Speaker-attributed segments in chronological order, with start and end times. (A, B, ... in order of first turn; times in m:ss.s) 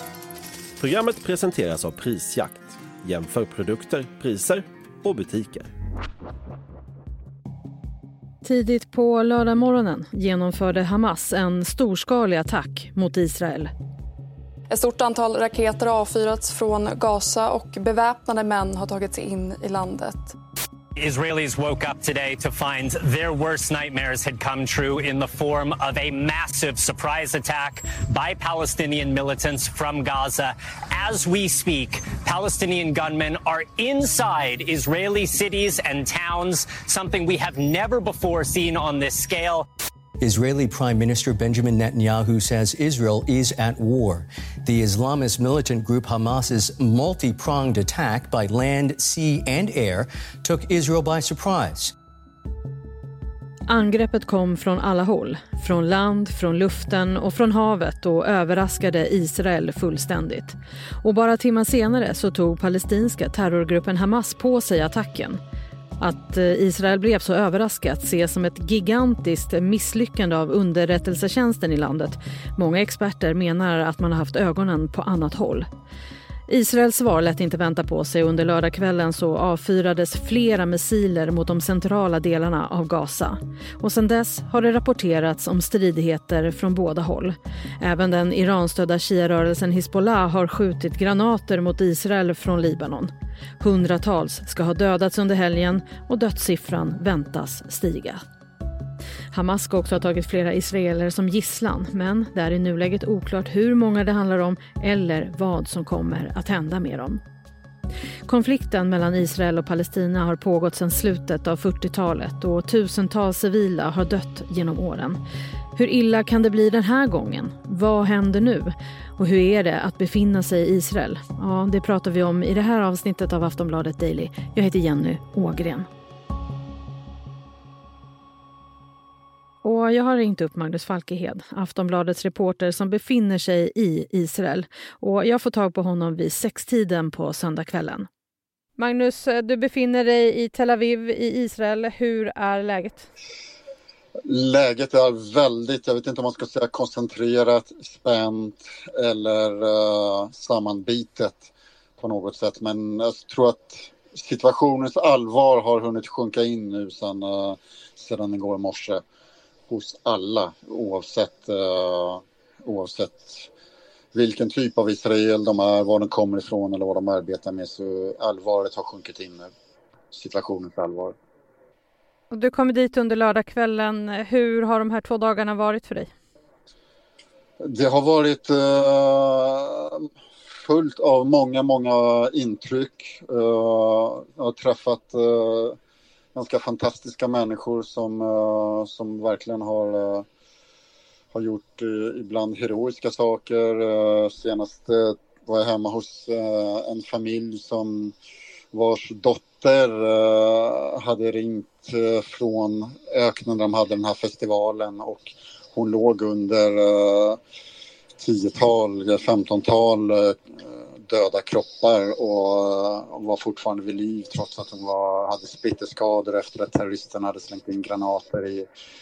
0:00.8-0:05.7 A
0:08.4-0:13.7 B
0:14.7-0:20.3 C
0:21.0-0:39.6 D
0:40.2-0:51.9 E
0:53.7-1:05.4 B
1:06.0-1:15.7 B
1:16.5-1:38.2 B
1:39.3-1:47.2 B
1:48.3-1:55.2 B
1:55.7-2:05.9 B
2:09.6-2:18.1 B
2:18.8-2:23.1 B
2:24.3-2:39.0 F
2:39.7-2:43.5 F
2:44.1-2:49.5 F
2:50.1-2:51.1 F
2:52.3-2:56.1 B
2:57.6-3:05.8 F
3:06.3-3:10.2 F
3:11.3-3:18.1 F
3:18.7-3:27.4 F
3:28.2-3:38.6 F